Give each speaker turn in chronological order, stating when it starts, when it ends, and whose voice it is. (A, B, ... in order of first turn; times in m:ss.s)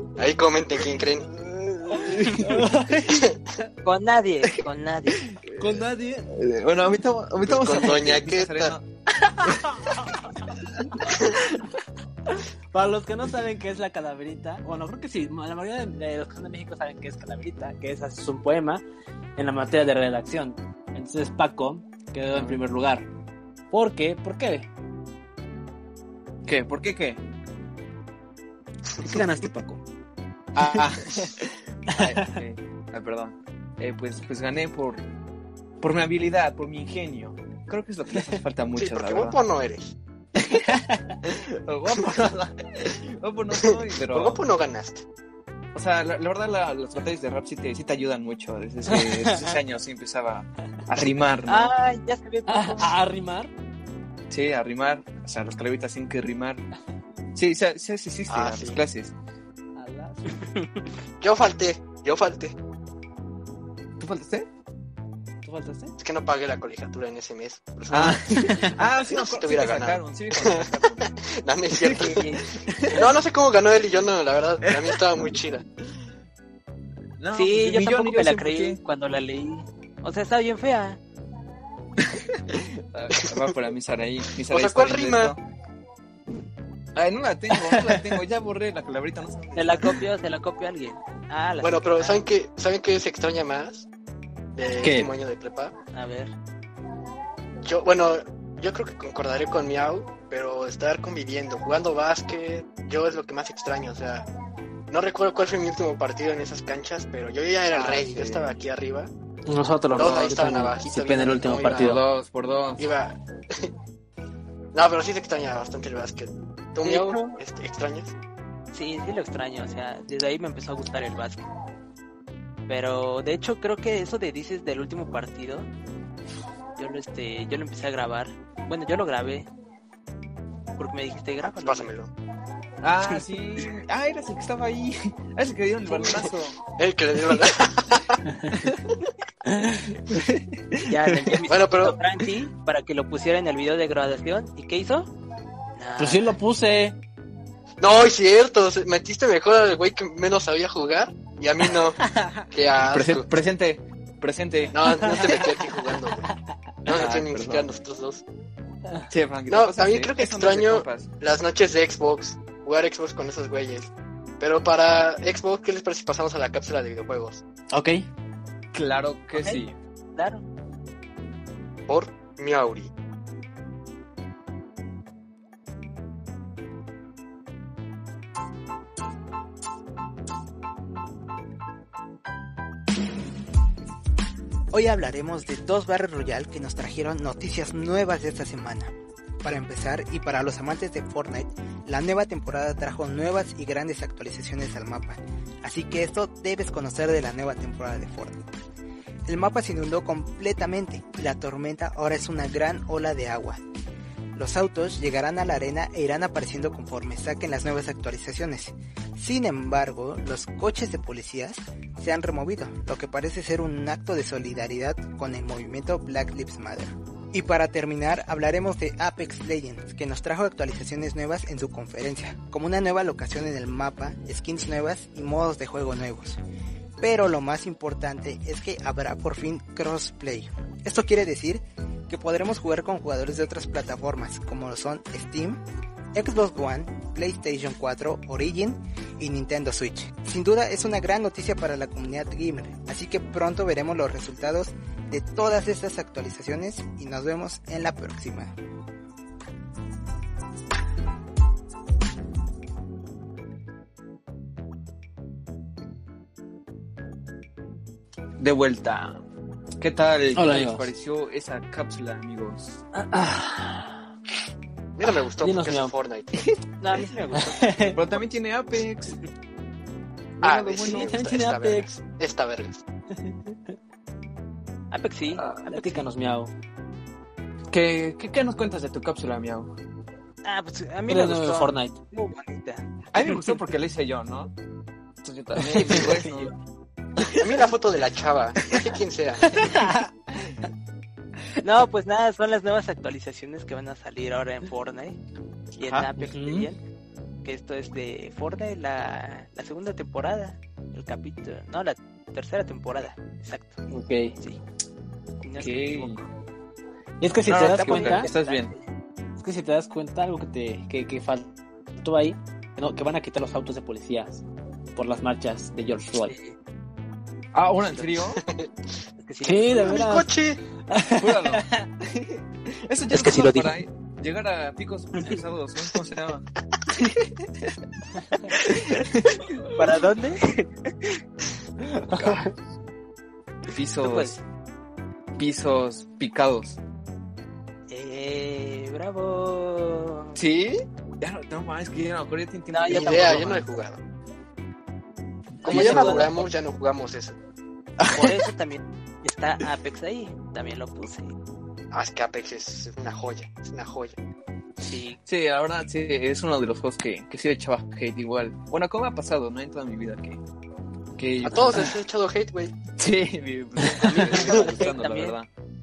0:00.2-0:01.3 A
0:01.3-0:02.7 B
0:01.9-0:03.2 C
0:03.1-0:03.4 A
0:03.8-0:05.2 D
0:05.2-0:08.8 B
0:05.6-0:06.3 C
0:07.4-0:08.7 A
0:09.3-0:10.3 C
0:11.1-0:11.3 A
0:12.7-0:18.8 C
0:19.4-0:23.1 C
0:22.3-0:22.6 B
0:23.7-0:24.7 C
0:26.4-0:27.2 B
0:29.0-0:29.8 C
0:30.5-0:35.0 B
0:31.9-0:32.3 C
0:35.8-0:39.4 B
0:38.8-0:39.9 A
0:40.6-0:41.1 C
0:41.2-0:44.4 B
0:43.7-0:45.0 A
0:45.7-0:51.7 B
0:48.9-0:49.4 C
0:51.5-0:52.9 D
0:52.5-0:53.5 C
0:54.3-0:56.6 B
0:57.3-0:59.1 B
0:58.3-0:58.8 A
0:59.8-1:00.4 C
1:00.4-1:00.7 D
1:01.2-1:02.6 A
1:04.0-1:04.5 B
1:05.4-1:05.9 C
1:06.0-1:12.3 A
1:07.9-1:11.1 B
1:08.0-1:08.8 C
1:11.8-1:13.0 B
1:12.0-1:13.0 D
1:12.9-1:15.6 A
1:14.6-1:16.1 B
1:17.2-1:18.8 B
1:17.3-1:21.0 D
1:22.0-1:25.4 B
1:24.4-1:25.3 A
1:26.9-1:30.0 B
1:29.6-1:32.2 D
1:31.6-1:33.9 A
1:34.5-1:35.7 A
1:34.8-1:35.1 C
1:35.9-1:36.3 D
1:37.6-1:44.3 A
1:44.9-1:49.1 A
1:47.7-1:48.6 B
1:49.5-1:52.0 C
1:49.9-1:52.0 A
1:51.4-1:52.9 B
1:52.8-1:53.7 A
1:54.7-1:58.1 A
1:56.8-1:57.4 D
1:58.7-2:01.4 D
2:02.7-2:05.7 D
2:06.8-2:09.5 D
2:10.8-2:11.9 D
2:11.4-2:12.1 A
2:12.8-2:16.6 B
2:16.8-2:18.2 A
2:18.3-2:18.6 C
2:19.5-2:19.9 C
2:20.1-2:21.4 B
2:20.8-2:25.1 D
2:21.5-2:22.0 A
2:25.8-2:26.3 D
2:26.0-2:27.0 C
2:27.8-2:33.3 A
2:32.1-2:32.4 C
2:32.8-2:35.5 B
2:34.7-2:36.3 A
2:36.8-2:38.2 A
2:36.9-2:37.8 B
2:39.1-2:41.1 B
2:39.5-2:47.4 A
2:47.7-2:48.0 C
2:48.7-2:49.8 B
2:49.3-2:49.6 D
2:50.2-2:50.4 D
2:51.9-2:52.9 A
3:04.7-3:18.4 E
3:19.2-3:23.6 E
3:24.3-3:46.4 E
3:47.0-3:55.6 E
3:56.1-4:08.5 E
4:18.4-4:19.2 B
4:19.8-4:22.8 B
4:20.3-4:20.9 C
4:22.9-4:24.0 C
4:25.0-4:26.4 A
4:25.4-4:25.9 C
4:26.8-4:27.9 D
4:27.3-4:28.0 C
4:27.9-4:29.2 B
4:30.4-4:31.2 B
4:30.4-4:32.8 A
4:30.8-4:31.9 C
4:33.2-4:33.7 C
4:34.9-4:36.0 D
4:35.6-4:36.5 C
4:37.7-4:39.7 B
4:40.4-4:43.4 D
4:41.1-4:42.0 C
4:43.1-4:44.5 B
4:45.2-4:46.5 B
4:45.7-4:46.5 D
4:47.4-4:49.6 A
4:49.6-4:50.1 C
4:51.6-4:55.2 D
4:55.8-4:56.1 B
4:55.8-4:56.8 D
4:56.2-4:56.7 C
4:57.4-5:03.8 D
5:03.9-5:04.4 C
5:05.4-5:06.2 D
5:05.6-5:06.2 B
5:07.2-5:08.3 C
5:07.4-5:08.7 B
5:07.5-5:08.8 D
5:09.4-5:16.3 C
5:16.2-5:16.5 D
5:17.5-5:18.4 B
5:17.8-5:18.1 D
5:18.4-5:18.7 A
5:19.2-5:20.0 D
5:19.4-5:20.3 C
5:19.8-5:20.6 A
5:20.9-5:21.6 C
5:21.1-5:26.4 B
5:23.1-5:23.7 D
5:27.0-5:27.3 B
5:28.6-5:29.0 B
5:29.7-5:30.7 D
5:31.8-5:32.5 C
5:32.1-5:32.5 B
5:33.7-5:34.4 B
5:34.0-5:34.4 D
5:35.4-5:36.8 B
5:37.9-5:40.4 D
5:40.4-5:43.7 B
5:42.7-5:43.6 D
5:42.9-5:44.0 A
5:45.5-5:46.4 B
5:45.6-5:46.5 D
5:45.6-5:47.4 A
5:48.0-5:48.5 B
5:48.1-5:51.3 D
5:51.9-5:54.2 A
5:54.8-5:55.2 D
5:55.2-6:00.4 B
6:01.2-6:01.9 B
6:01.4-6:02.8 A
6:02.9-6:05.5 B
6:04.2-6:05.4 D
6:04.4-6:04.7 A